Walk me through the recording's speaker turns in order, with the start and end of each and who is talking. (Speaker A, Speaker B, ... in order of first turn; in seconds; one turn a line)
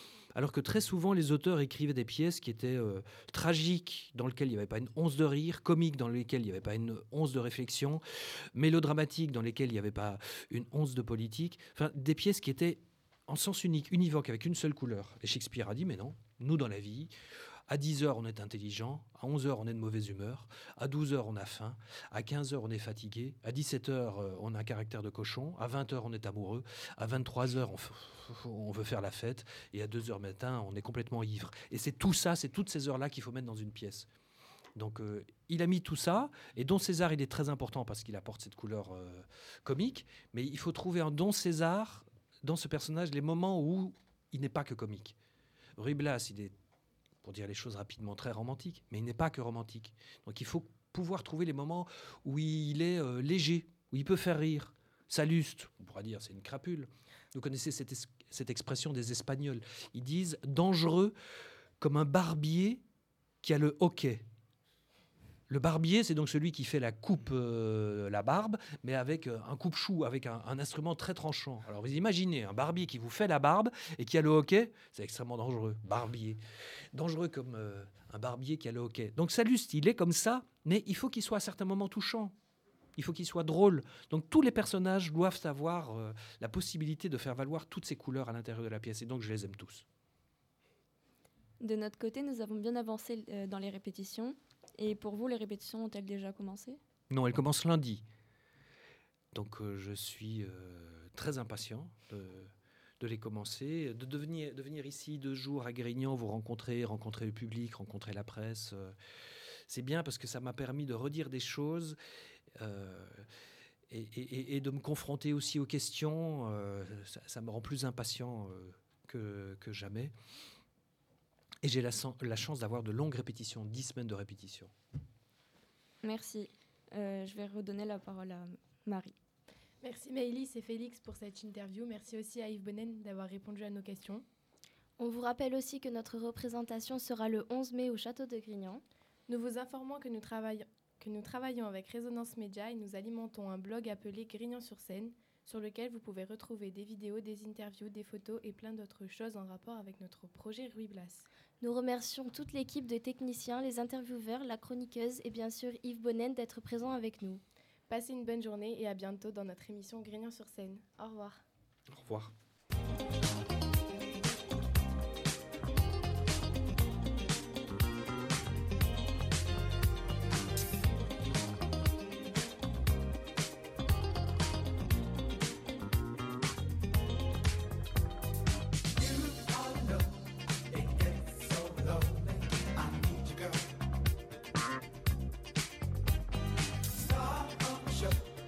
Speaker A: 0.3-17.1
Speaker A: 17.7-34.1
Speaker A: 34.8-45.1
Speaker A: 45.8-46.5
Speaker A: 47.2-61.1
Speaker A: 61.8-62.8
Speaker A: 63.4-64.2
Speaker A: 65.5-76.4
Speaker A: 76.9-82.3
Speaker A: 83.0-89.8
Speaker B: 91.6-96.8
Speaker A: 97.1-98.0
Speaker A: 99.3-109.0
Speaker A: 109.7-112.0
Speaker A: 112.6-113.3
Speaker A: 113.9-120.1
Speaker A: 121.6-124.7
Speaker B: 126.0-129.1
Speaker C: 129.8-134.2
Speaker D: 135.0-138.8
Speaker C: 139.3-151.3
Speaker D: 151.6-157.4
Speaker C: 157.9-161.4
Speaker A: 161.9-162.3
Speaker A: 179.0-183.7
Speaker A: 187.0-188.2